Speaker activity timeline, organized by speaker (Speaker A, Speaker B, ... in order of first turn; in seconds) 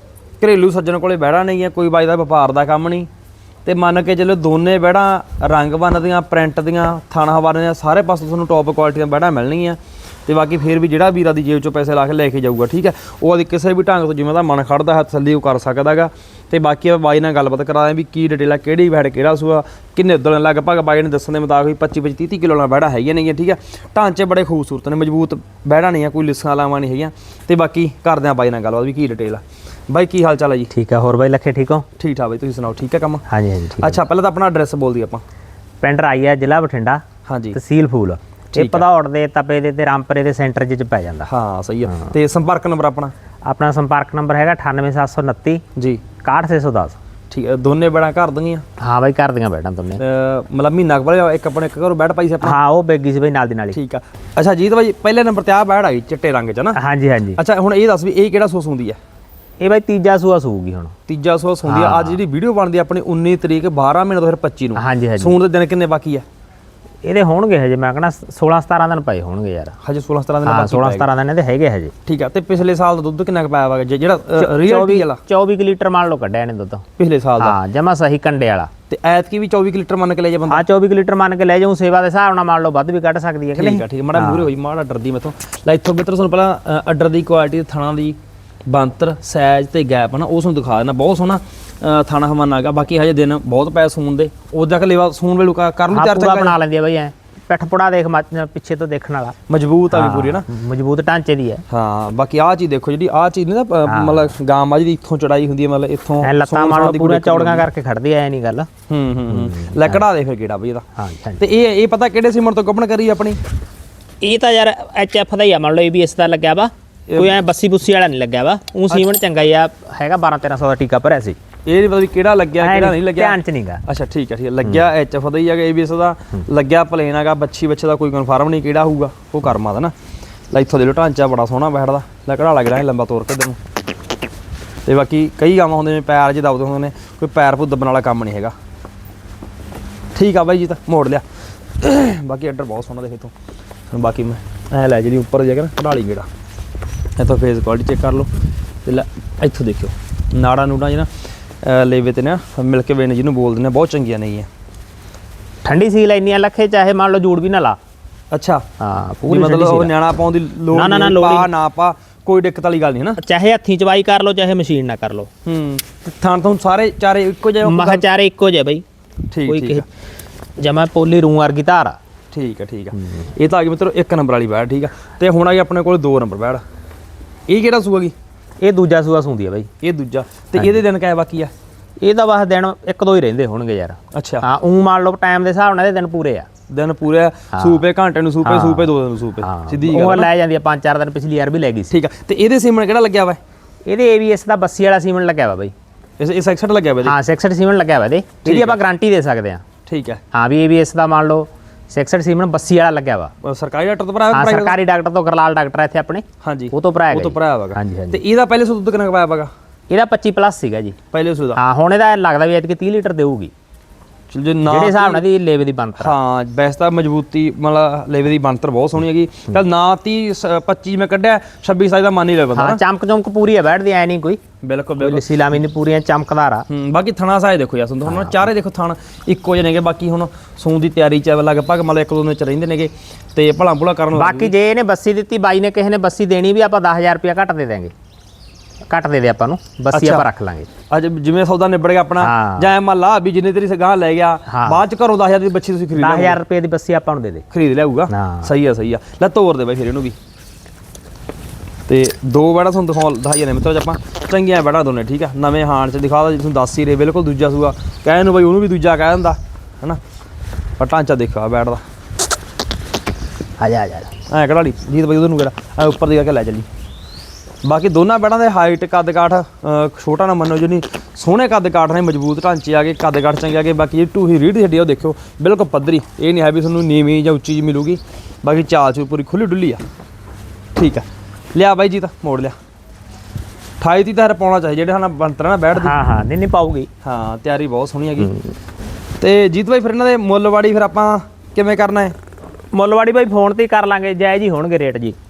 Speaker A: 0.4-3.1, 3.6-30.7, 32.0-33.2, 33.8-35.2, 37.3-37.6, 38.5-38.9, 41.3-43.1, 45.8-46.0, 47.3-48.6, 50.0-52.6, 53.7-56.8, 57.4-59.0, 61.1-66.2, 69.8-71.1, 72.1-75.2, 77.0-77.6, 78.9-80.6, 83.5-96.5, 99.5-100.5, 101.7-107.7, 108.9-110.8, 111.4-113.4, 117.1-117.3, 121.7-129.9, 130.5-133.6, 134.9-138.6, 140.2-141.2, 141.8-143.3, 143.9-146.3, 147.2-148.3, 148.8-151.1, 151.6-154.5, 158.3-158.7, 159.3-163.2, 165.4-168.0, 169.3-169.9, 172.3-176.6, 177.5-178.2, 179.8-181.5, 184.1-184.5, 186.7-190.3, 191.9-193.4, 196.2-197.2, 198.4-198.8, 199.9-200.2, 203.4-204.8, 206.4-209.5, 211.1-211.6, 214.3-215.2, 216.0-222.8, 224.6-225.3, 226.7-234.5, 239.9-240.3, 240.9-246.4, 247.5-250.2, 251.9-260.0, 260.8-261.8, 264.3-266.7, 267.6-279.8, 280.8-282.6, 283.8-285.9, 287.0-288.3, 289.2-292.1
Speaker B: 30.7-31.9, 33.3-34.0, 35.8-37.0, 37.5-41.3, 41.9-42.1, 43.5-45.6, 46.2-47.0, 48.8-50.0, 52.4-53.8, 56.8-57.4, 59.6-61.0, 61.6-62.2, 64.8-65.3, 67.0-69.8, 70.4-71.9, 74.4-76.8, 77.4-78.7, 80.5-84.5, 95.9-99.4, 99.9-101.6, 103.9-104.3, 106.2-108.7, 109.3-110.0, 111.0-111.4, 114.2-121.4, 122.6-123.8, 155.6-157.8, 158.8-159.9, 160.7-161.5, 163.2-165.3, 167.6-168.8, 169.5-169.9, 170.6-172.0, 178.6-179.7, 182.0-186.5, 187.5-187.8, 188.4-188.9, 189.4-191.9, 193.9-195.7, 197.0-199.6, 200.3-203.3, 204.3-208.2, 209.9-211.0, 211.6-213.5, 214.7-216.2, 222.5-224.4, 225.0-226.7, 228.1-228.4, 234.1-237.9, 238.9-240.7, 242.2-242.7, 244.5-244.8, 245.9-247.5, 248.1-248.5, 263.6-264.1, 285.7-286.9, 288.2-288.5, 292.7-295.2